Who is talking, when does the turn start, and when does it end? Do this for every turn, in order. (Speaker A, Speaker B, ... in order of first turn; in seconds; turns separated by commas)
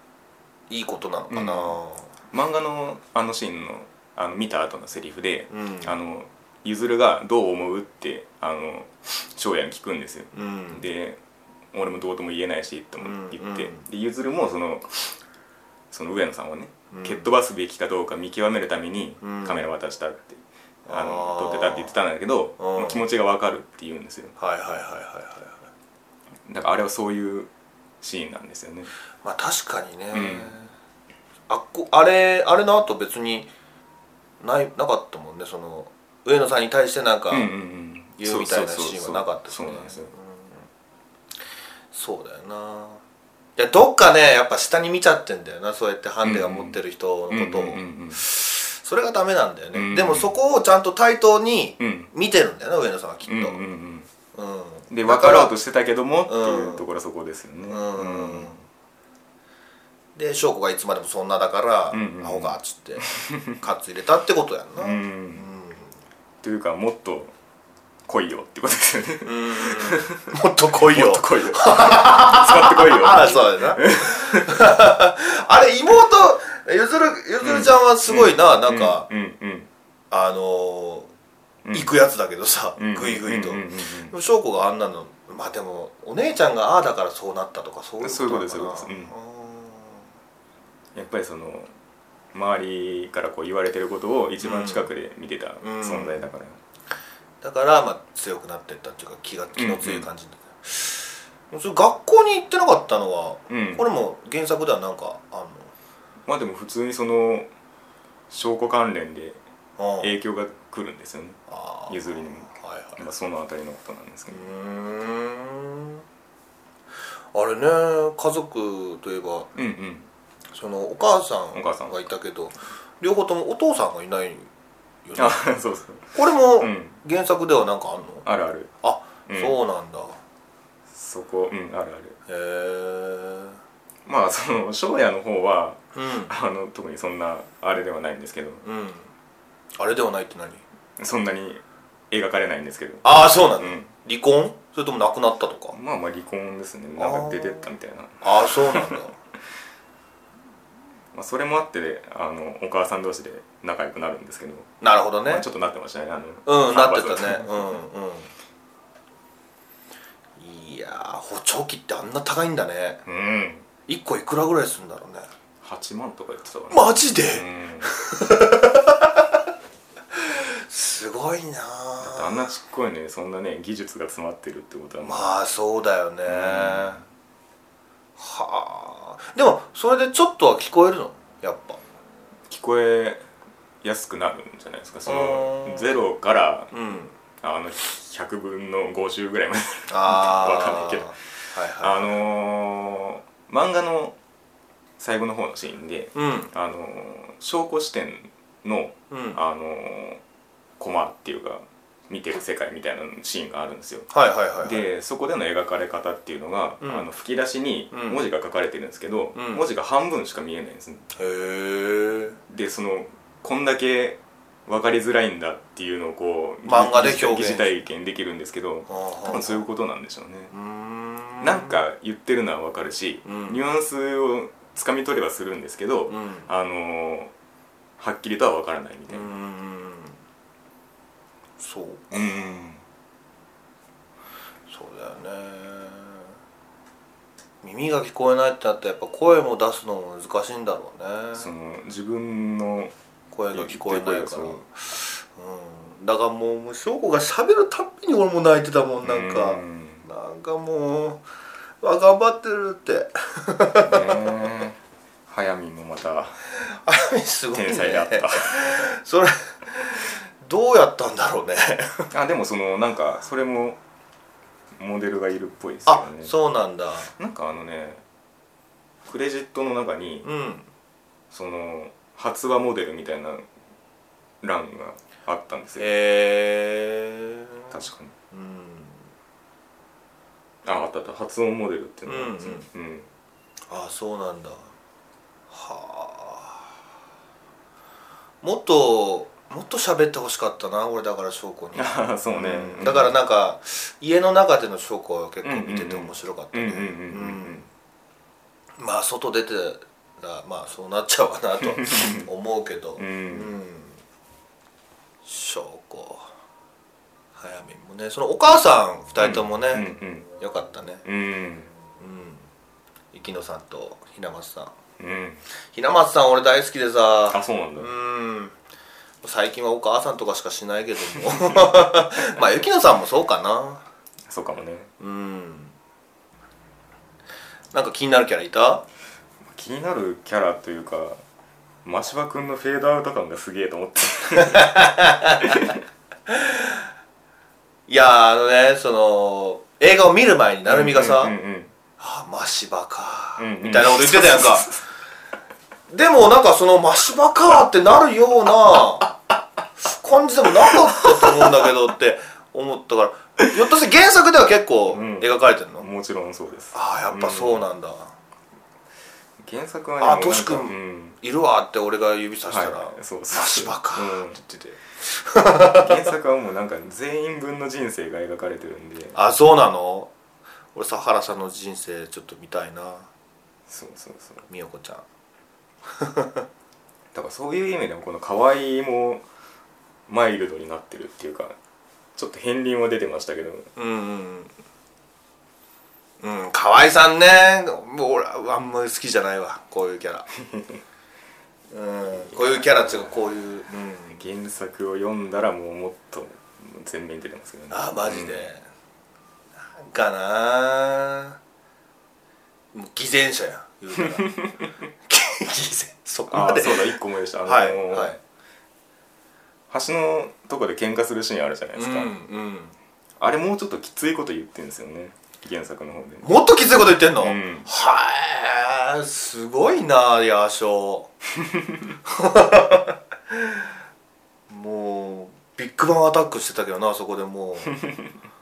Speaker A: 0.7-2.1, Speaker B: 1.3-1.8, Speaker B: 2.3-11.2, Speaker A: 5.5-5.9, Speaker A: 10.3-10.8, Speaker B: 11.7-15.2, Speaker A: 13.0-13.8, Speaker B: 15.9-24.4, Speaker A: 16.9-17.3, Speaker A: 19.2-19.7, Speaker A: 20.9-21.9, Speaker A: 22.6-23.0, Speaker A: 24.4-25.7, Speaker B: 26.5-27.5, Speaker B: 28.0-28.9, Speaker A: 29.2-30.7, Speaker B: 30.1-30.6, Speaker A: 31.5-33.5, Speaker A: 34.4-37.5, Speaker B: 37.3-40.1, Speaker A: 38.2-40.7, Speaker A: 41.9-43.0, Speaker A: 43.6-53.6, Speaker B: 46.2-48.2, Speaker B: 49.7-50.3, Speaker B: 51.8-52.1, Speaker B: 53.2-54.1, Speaker A: 54.3-55.5, Speaker B: 54.9-58.5, Speaker A: 56.3-56.9, Speaker A: 57.7-58.6, Speaker A: 60.1-65.9, Speaker B: 61.9-63.6, Speaker B: 64.8-65.5, Speaker B: 66.4-67.3, Speaker B: 68.1-74.6, Speaker A: 69.2-79.1, Speaker B: 77.4-79.7, Speaker A: 80.1-81.1, Speaker B: 81.7-81.9, Speaker A: 81.7-90.1, Speaker B: 82.8-84.1, Speaker B: 88.0-89.1, Speaker B: 91.0-91.7, Speaker B: 92.3-96.6, Speaker A: 94.4-94.9, Speaker A: 95.6-96.3, Speaker A: 97.4-105.7, Speaker B: 99.6-100.1, Speaker B: 103.5-103.9, Speaker B: 106.3-107.5, Speaker B: 108.3-109.4, Speaker A: 109.8-110.1, Speaker B: 110.0-114.4, Speaker A: 111.5-113.0, Speaker A: 114.3-116.0, Speaker A: 117.3-119.5, Speaker B: 119.5-120.1, Speaker A: 120.5-124.5, Speaker B: 121.5-122.1, Speaker A: 125.0-125.4, Speaker B: 125.2-127.0, Speaker A: 126.1-128.3, Speaker B: 128.2-128.7, Speaker A: 128.8-130.2, Speaker B: 129.3-129.6, Speaker B: 130.9-132.2, Speaker A: 132.3-133.6, Speaker B: 134.1-138.6, Speaker A: 135.9-136.3, Speaker A: 138.6-139.1, Speaker A: 139.8-140.6, Speaker B: 141.0-143.9, Speaker A: 143.0-145.8, Speaker B: 145.7-149.0, Speaker A: 147.0-147.7, Speaker A: 148.2-149.2, Speaker B: 151.1-154.7, Speaker A: 154.8-155.5, Speaker B: 155.3-157.8, Speaker A: 156.5-158.3, Speaker A: 160.4-163.0, Speaker B: 163.1-163.7, Speaker A: 163.9-165.3, Speaker B: 165.6-167.9, Speaker A: 166.7-169.4, Speaker A: 170.1-172.5, Speaker B: 172.0-175.3, Speaker A: 175.0-177.0, Speaker B: 176.3-177.0, Speaker A: 178.2-181.8, Speaker B: 182.5-183.2, Speaker B: 183.8-186.7, Speaker A: 185.1-186.0, Speaker A: 186.7-187.2, Speaker B: 187.4-194.2, Speaker A: 189.9-192.1, Speaker B: 195.0-200.2, Speaker A: 196.2-196.5, Speaker A: 199.1-199.4, Speaker B: 200.8-204.1, Speaker A: 204.1-204.9, Speaker B: 204.6-211.1, Speaker A: 206.8-207.1, Speaker A: 207.9-208.2, Speaker A: 209.3-209.6, Speaker A: 211.2-212.4, Speaker B: 212.5-220.5, Speaker A: 216.7-217.7, Speaker A: 218.9-219.7, Speaker A: 220.5-221.8, Speaker B: 221.4-227.3, Speaker A: 223.2-223.6, Speaker A: 226.1-226.5, Speaker B: 228.0-229.3, Speaker A: 229.1-230.2, Speaker A: 231.6-232.6, Speaker B: 232.1-232.8, Speaker A: 234.7-236.3, Speaker A: 237.6-241.5, Speaker B: 241.3-242.9, Speaker A: 243.3-251.2, Speaker B: 243.5-244.6, Speaker B: 249.0-250.1, Speaker A: 251.8-254.2, Speaker B: 253.8-256.4, Speaker A: 256.7-262.1, Speaker B: 257.5-258.8, Speaker B: 262.1-263.8, Speaker B: 264.8-266.3, Speaker A: 265.9-267.1, Speaker B: 267.1-268.0, Speaker B: 269.1-270.3, Speaker A: 270.2-270.7, Speaker B: 271.3-273.5, Speaker B: 274.4-275.9, Speaker A: 275.8-277.7, Speaker B: 277.7-278.1, Speaker A: 278.3-279.1, Speaker B: 280.6-283.1, Speaker A: 282.1-282.7, Speaker A: 283.7-284.7, Speaker A: 285.5-286.7, Speaker A: 288.4-297.7, Speaker B: 291.8-293.2, Speaker B: 295.4-297.7, Speaker A: 298.8-304.0, Speaker B: 301.6-302.3, Speaker B: 303.0-303.6, Speaker A: 305.2-306.3, Speaker A: 307.4-309.9, Speaker B: 309.2-310.3, Speaker A: 310.4-311.0, Speaker B: 311.1-311.7, Speaker A: 312.0-312.5, Speaker A: 313.1-314.7, Speaker B: 315.0-315.4, Speaker A: 315.7-318.6, Speaker B: 317.3-317.9, Speaker A: 319.2-323.8, Speaker B: 321.4-322.0, Speaker B: 324.3-324.9, Speaker A: 325.0-325.7, Speaker A: 327.7-328.9, Speaker B: 329.4-331.2, Speaker B: 331.9-335.8, Speaker A: 334.4-335.7, Speaker A: 336.3-336.9, Speaker A: 337.9-341.3, Speaker B: 340.7-341.7, Speaker A: 342.0-344.8, Speaker B: 343.4-344.7, Speaker A: 345.9-349.2, Speaker A: 349.8-355.9, Speaker B: 354.9-357.7, Speaker A: 356.7-358.1, Speaker B: 359.4-361.2, Speaker A: 360.0-366.1, Speaker B: 362.5-364.4, Speaker B: 365.5-369.2, Speaker A: 369.1-370.1, Speaker A: 370.8-373.1, Speaker B: 373.7-374.5, Speaker A: 374.5-375.1, Speaker A: 375.9-376.5, Speaker B: 377.1-379.2, Speaker B: 380.1-381.6, Speaker B: 382.2-383.7, Speaker A: 383.8-384.5, Speaker A: 386.2-390.3, Speaker B: 390.4-390.8, Speaker A: 391.7-394.2, Speaker B: 392.1-393.1, Speaker B: 394.1-398.5, Speaker A: 397.7-398.6, Speaker A: 399.6-401.4, Speaker A: 402.7-404.4, Speaker B: 404.0-404.7, Speaker A: 405.1-408.2, Speaker B: 406.3-408.2, Speaker B: 409.7-412.1, Speaker A: 411.8-412.8, Speaker B: 413.2-416.3, Speaker A: 416.2-421.1, Speaker B: 417.2-417.7, Speaker B: 421.4-421.9, Speaker A: 422.1-423.7, Speaker A: 424.5-427.7, Speaker B: 427.8-428.1